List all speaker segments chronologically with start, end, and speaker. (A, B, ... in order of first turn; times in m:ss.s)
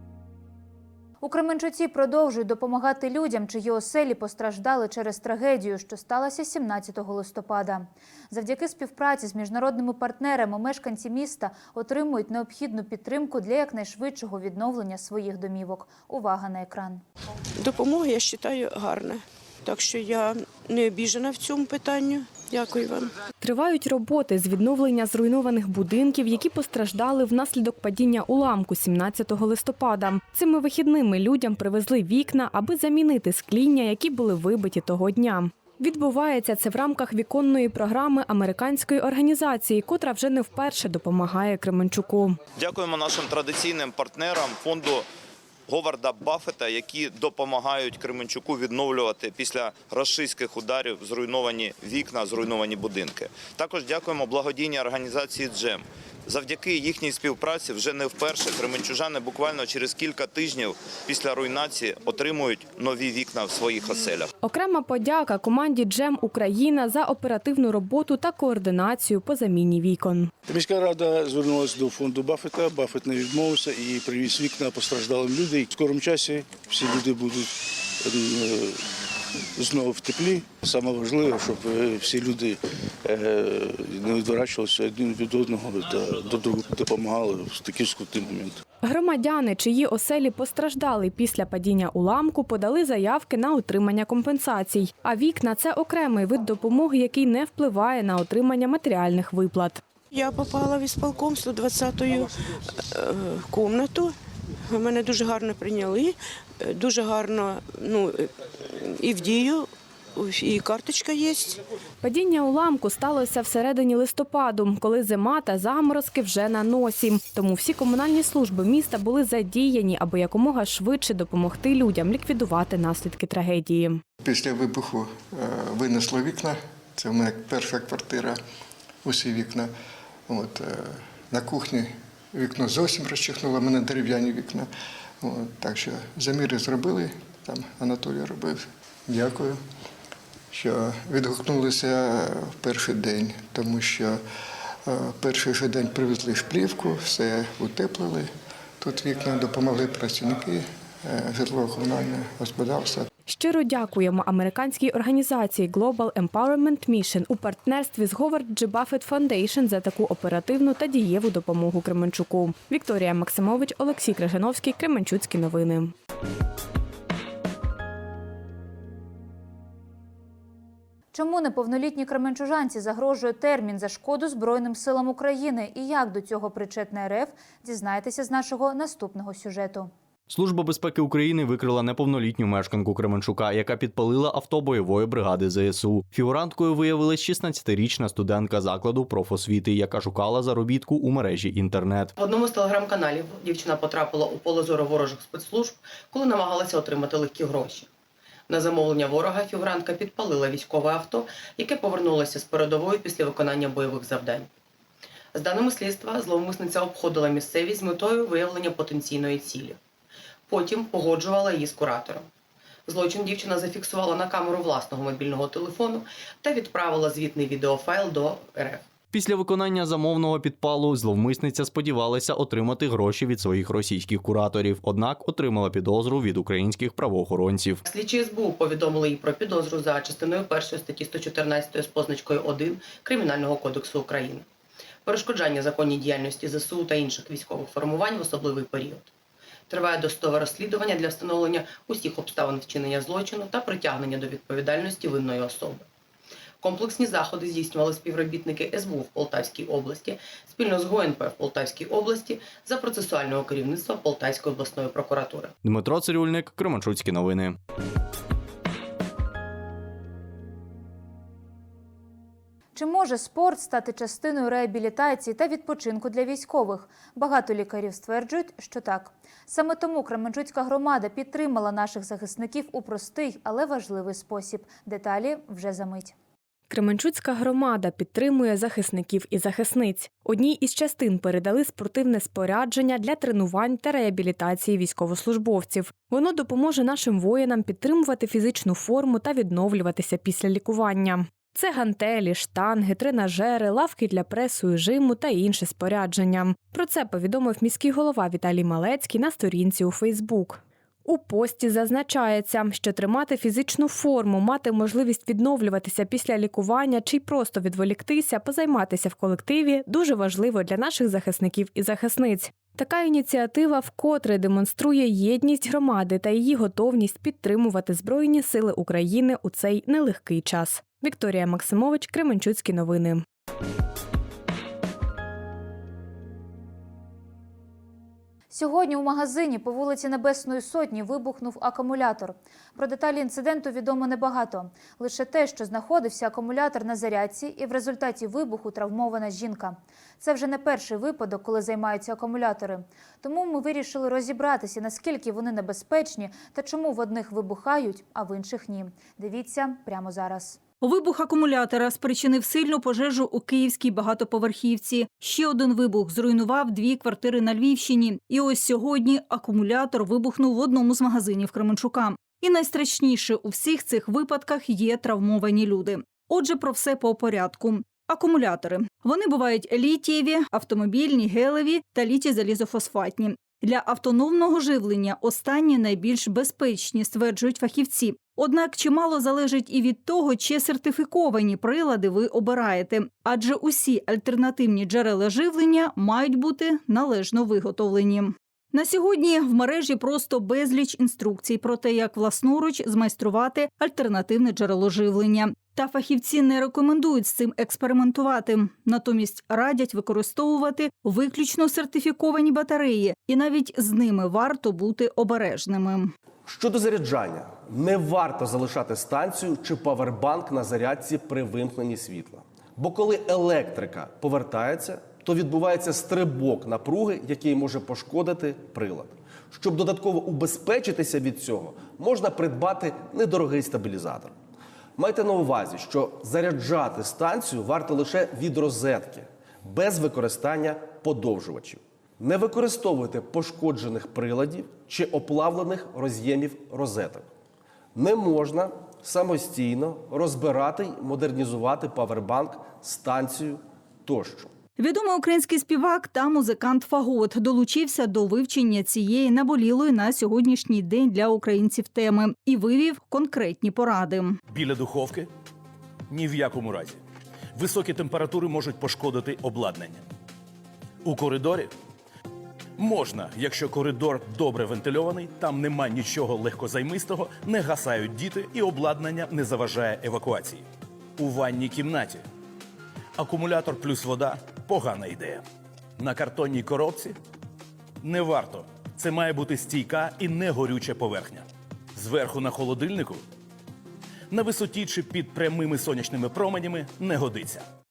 0:01.2-0:17.0 A
0:23.4-0:42.4 B
0:42.6-0:45.0 C
0:45.7-1:04.3 C
1:04.4-1:10.3 B
1:10.5-1:18.8 D
1:19.6-1:28.6 D
1:28.8-1:39.8 B
1:40.1-1:42.2 E
1:43.5-1:43.9 E
1:44.8-1:45.6 E
1:46.8-1:47.3 E
1:50.4-1:51.0 E
1:52.0-2:04.0 B
2:04.2-2:08.4 F
2:09.0-2:09.7 F
2:10.3-2:14.7 F
2:15.2-2:19.6 F
2:20.5-2:24.2 F
2:24.8-2:33.0 F
2:33.3-2:45.9 B
2:51.1-2:59.9 A
3:00.3-3:12.1 G
3:12.2-3:17.9 H
3:18.5-3:24.5 H
3:25.3-3:29.8 H
3:30.5-3:32.2 H
3:32.9-3:38.8 H
3:39.1-3:47.8 G
3:47.8-3:54.4 H
3:55.0-3:59.1 H
3:59.7-4:05.8 H
4:06.6-4:15.5 H
4:15.6-4:17.6 G
4:22.7-4:36.1 A
4:36.7-5:23.2 B
5:28.5-5:50.6 A
5:50.8-6:46.1 I
6:46.4-7:04.4 J
7:05.0-7:17.2 J
7:17.9-7:24.5 J
7:24.8-7:34.4 I
7:34.5-7:35.3 K
7:36.1-7:37.0 K
7:37.5-7:40.0 K
7:41.0-7:41.7 K
7:42.8-7:50.6 K
7:51.2-7:52.2 K
7:53.2-7:55.4 K
7:56.0-7:57.1 K
7:58.0-8:03.2 K
8:04.3-8:07.6 K